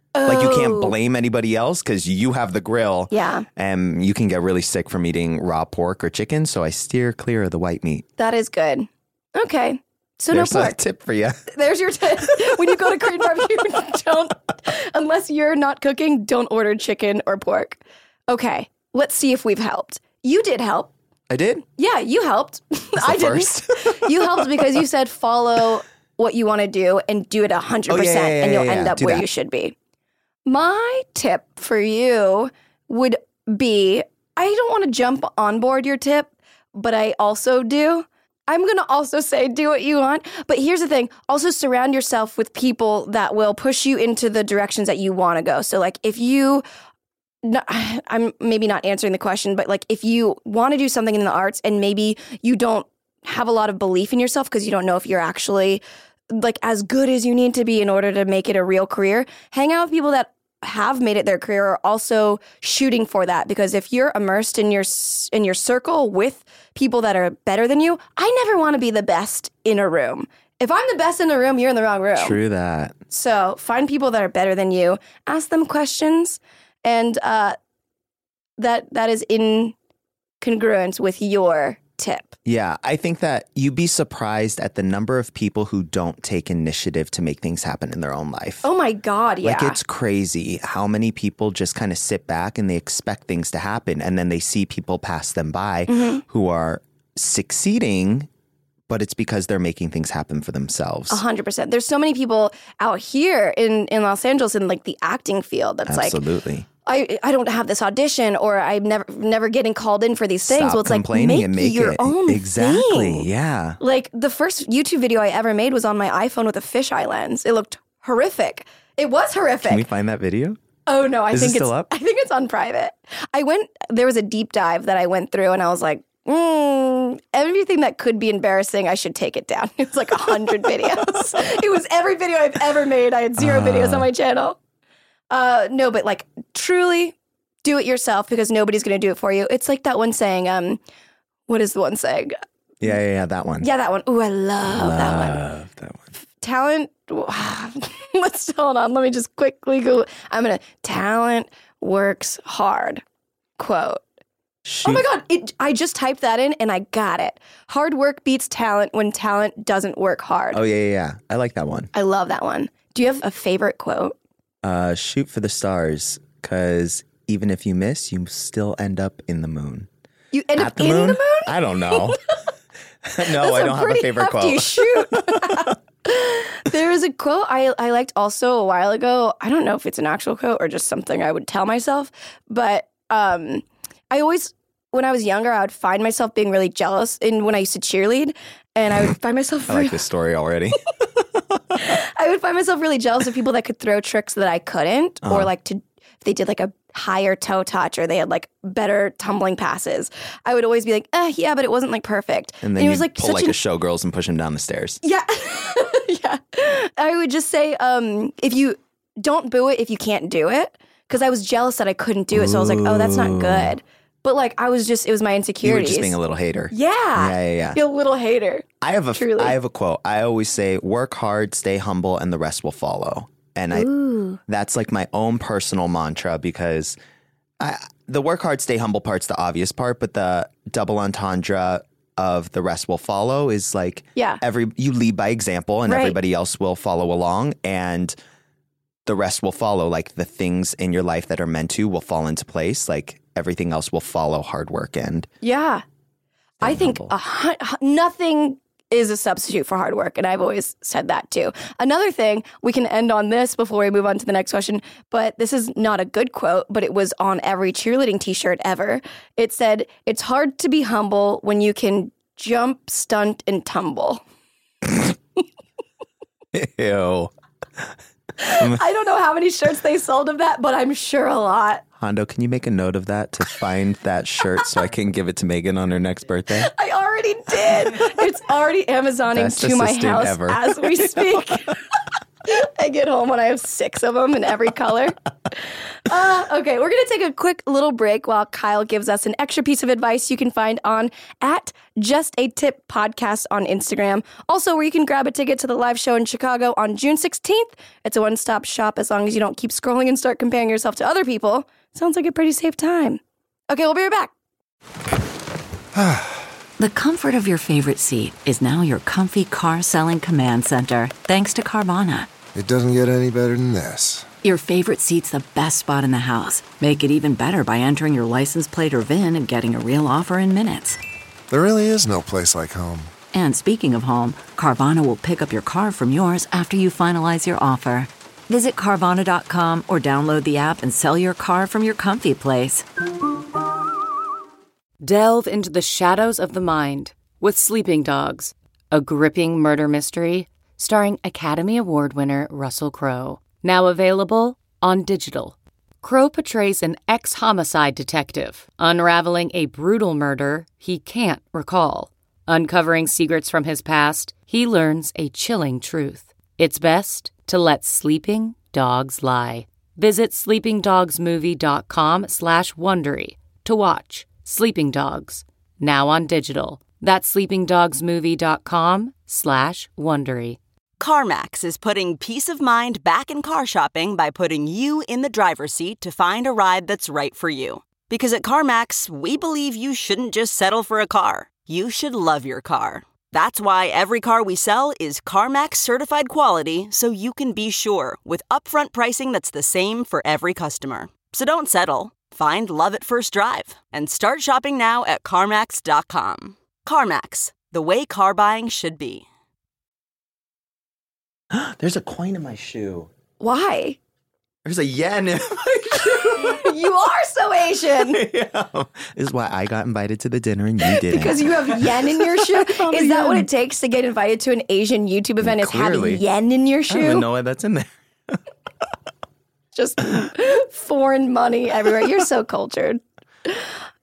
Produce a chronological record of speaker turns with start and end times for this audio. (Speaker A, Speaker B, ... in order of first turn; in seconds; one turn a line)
Speaker A: 0.1-0.9
Speaker B: 0.2-8.0
Speaker A: 3.1-3.5
Speaker A: 8.2-10.8
Speaker B: 10.3-11.5
Speaker A: 11.5-20.9
Speaker B: 21.3-21.6
Speaker A: 21.8-29.7
Speaker B: 23.0-24.8
Speaker B: 27.9-29.2
Speaker A: 30.4-46.6
Speaker A: 47.4-72.4
Speaker B: 72.2-73.0
Speaker A: 73.1-77.5
Speaker A: 78.6-79.7
Speaker A: 80.4-82.3
Speaker B: 82.5-88.7
Speaker A: 88.6-89.8
Speaker B: 89.4-98.3
Speaker A: 95.9-96.2
Speaker B: 98.9-101.2
Speaker A: 101.1-106.2
Speaker B: 105.9-106.7
Speaker A: 106.8-113.3
Speaker B: 110.5-113.8
Speaker A: 113.8-119.9
Speaker B: 119.6-120.6
Speaker A: 120.9-134.6
Speaker B: 121.3-121.9
Speaker B: 133.4-134.1
Speaker A: 135.3-140.8
Speaker A: 141.5-142.3
Speaker B: 142.8-143.7
Speaker A: 143.6-145.4
Speaker B: 144.7-146.1
Speaker A: 146.4-153.0
Speaker A: 153.6-154.0
Speaker B: 154.6-155.1
Speaker A: 154.8-160.6
Speaker B: 160.5-161.9
Speaker A: 161.9-164.1
Speaker B: 164.6-169.9
Speaker A: 170.3-172.2
Speaker B: 170.6-172.2
Speaker B: 173.0-175.7
Speaker A: 173.2-190.0
Speaker B: 189.7-190.8
Speaker B: 191.5-191.9
Speaker A: 191.8-203.6
Speaker B: 195.2-195.5
Speaker B: 202.6-205.0
Speaker A: 205.0-216.2
Speaker B: 212.3-213.7
Speaker B: 215.6-217.8
Speaker A: 216.7-219.6
Speaker B: 218.8-223.9
Speaker A: 223.7-224.4
Speaker B: 224.5-226.9
Speaker B: 227.6-238.1
Speaker A: 235.9-236.2
Speaker B: 239.1-245.3
Speaker A: 245.4-245.8
Speaker B: 246.6-247.1
Speaker A: 246.6-264.2
Speaker B: 266.5-267.3
Speaker A: 268.4-271.8
Speaker B: 268.6-268.8
Speaker B: 272.0-276.7
Speaker A: 276.6-281.8
Speaker B: 279.3-281.4
Speaker A: 282.4-285.1
Speaker A: 286.1-304.3
Speaker C: 305.9-306.3
Speaker D: 306.8-312.3
Speaker C: 312.5-314.2
Speaker D: 314.4-321.0
Speaker C: 321.5-323.1
Speaker D: 323.3-332.8
Speaker E: 335.0-370.6
Speaker F: 371.0-399.2
Speaker D: 377.9-378.4
Speaker D: 380.9-382.0
Speaker D: 383.3-383.6
Speaker D: 388.4-388.6
Speaker D: 389.2-389.5
Speaker D: 392.1-392.4
Speaker D: 397.5-398.1
Speaker B: 401.5-403.1
Speaker A: 403.4-404.0
Speaker B: 404.6-406.7
Speaker A: 406.0-408.2
Speaker B: 408.0-413.5
Speaker A: 410.8-417.2
Speaker B: 415.4-416.2
Speaker B: 416.9-418.4
Speaker A: 419.7-423.7